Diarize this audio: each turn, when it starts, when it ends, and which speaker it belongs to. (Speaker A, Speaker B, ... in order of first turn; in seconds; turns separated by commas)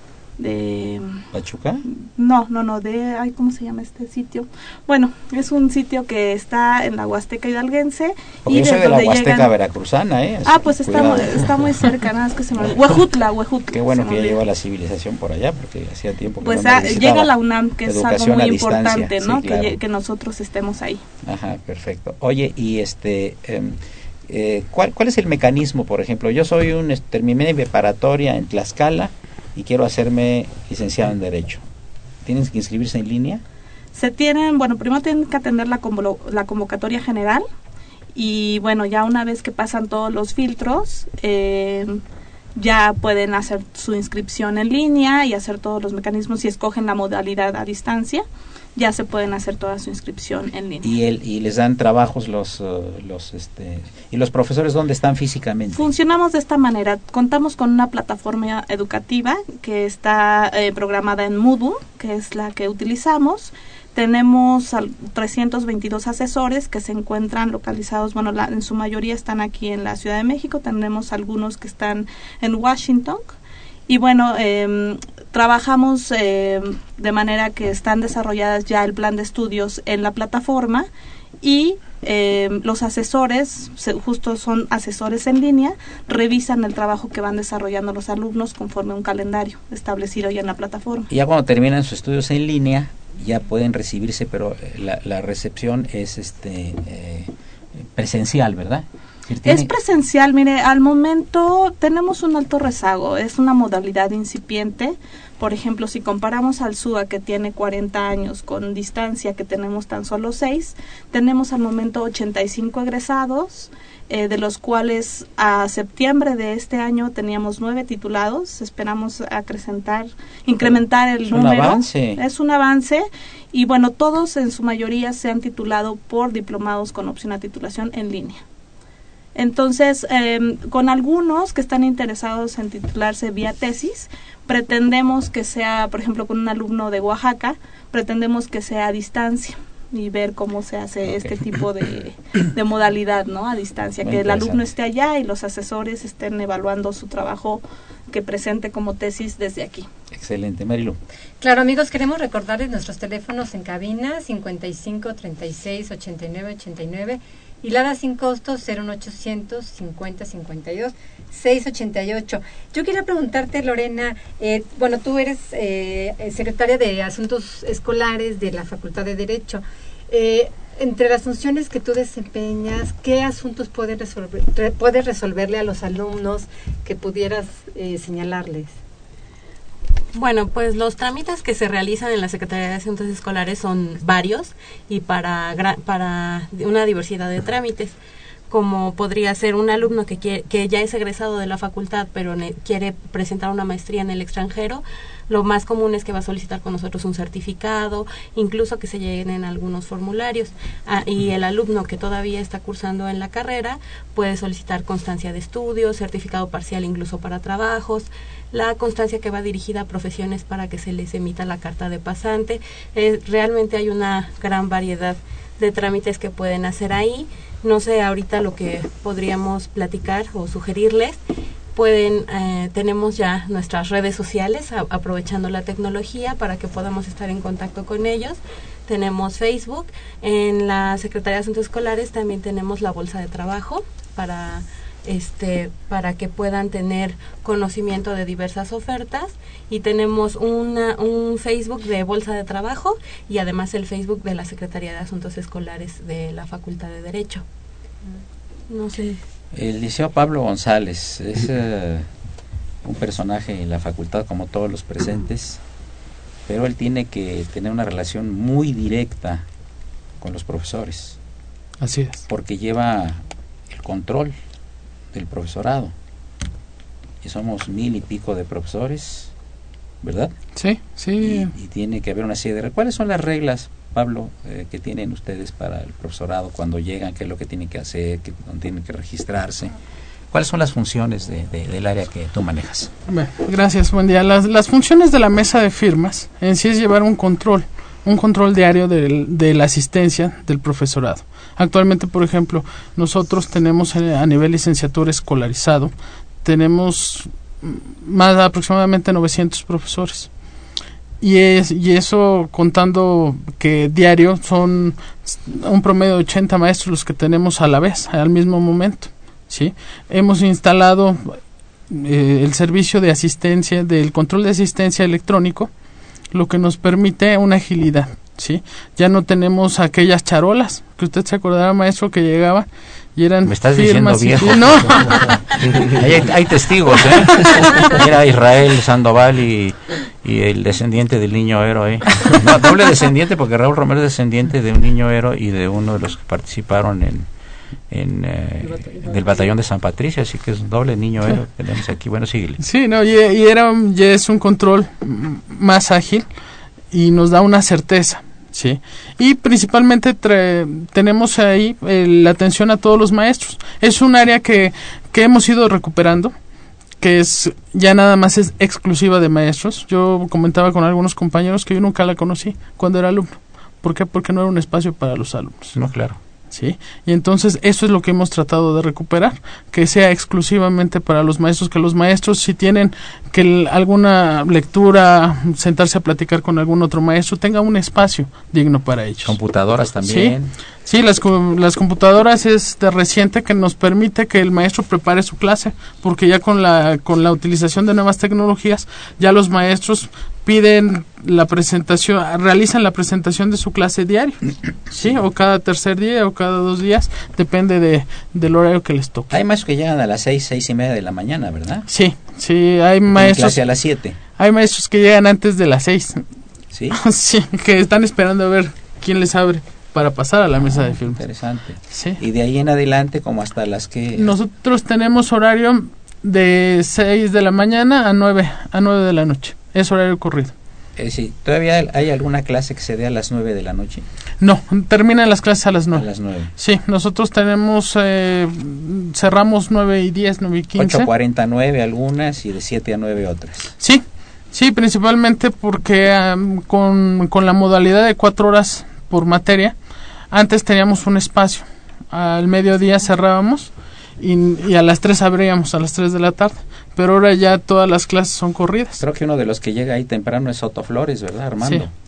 Speaker A: 0.4-1.2, Speaker B: 1.3-1.9, Speaker A: 1.9-9.5, Speaker B: 8.4-11.6, Speaker A: 10.4-14.4, Speaker B: 12.7-13.0, Speaker B: 13.7-17.3, Speaker A: 16.4-21.0, Speaker B: 17.8-19.8, Speaker B: 21.2-31.6, Speaker B: 32.2-33.4, Speaker A: 33.9-37.4, Speaker A: 38.1-42.0, Speaker A: 42.5-48.2, Speaker A: 48.8-50.9, Speaker B: 50.8-55.9, Speaker A: 55.7-73.3, Speaker A: 73.9-80.9, Speaker A: 81.4-91.1, Speaker B: 91.1-99.7, Speaker A: 99.4-128.4, Speaker B: 121.3-122.2, Speaker A: 129.3-149.9, Speaker B: 141.0-141.3, Speaker B: 144.0-144.6, Speaker B: 150.1-151.0, Speaker C: 151.4-178.8, Speaker D: 180.1-188.0, Speaker D: 188.5-221.2, Speaker D: 221.7-247.4, Speaker D: 248.7-249.2, Speaker B: 249.5-252.1, Speaker B: 252.8-255.6, Speaker B: 256.4-259.5, Speaker B: 260.2-261.2, Speaker E: 261.8-262.2, Speaker B: 262.3-264.3, Speaker B: 265.1-265.9, Speaker B: 267.2-269.3, Speaker B: 270.0-270.3, Speaker E: 270.5-271.5, Speaker B: 271.2-279.7, Speaker B: 280.3-282.9, Speaker E: 283.1-300.3, Speaker E: 301.2-315.7, Speaker E: 316.3-325.4, Speaker B: 323.4-337.3, Speaker B: 337.9-342.6, Speaker E: 342.6-346.3, Speaker E: 346.9-356.3, Speaker E: 357.0-365.9, Speaker B: 365.7-366.2, Speaker E: 366.5-399.3, Speaker B: 379.2-380.5, Speaker B: 399.3-401.9, Speaker E: 401.9-406.2, Speaker B: 403.1-404.2, Speaker B: 406.7-407.0, Speaker E: 406.9-411.4, Speaker B: 410.6-414.3, Speaker E: 411.9-412.2, Speaker E: 414.2-420.5, Speaker B: 420.9-424.0, Speaker E: 424.4-431.1, Speaker B: 425.9-426.5, Speaker B: 430.7-433.8, Speaker E: 433.8-449.0, Speaker B: 449.0-451.9, Speaker E: 451.6-451.9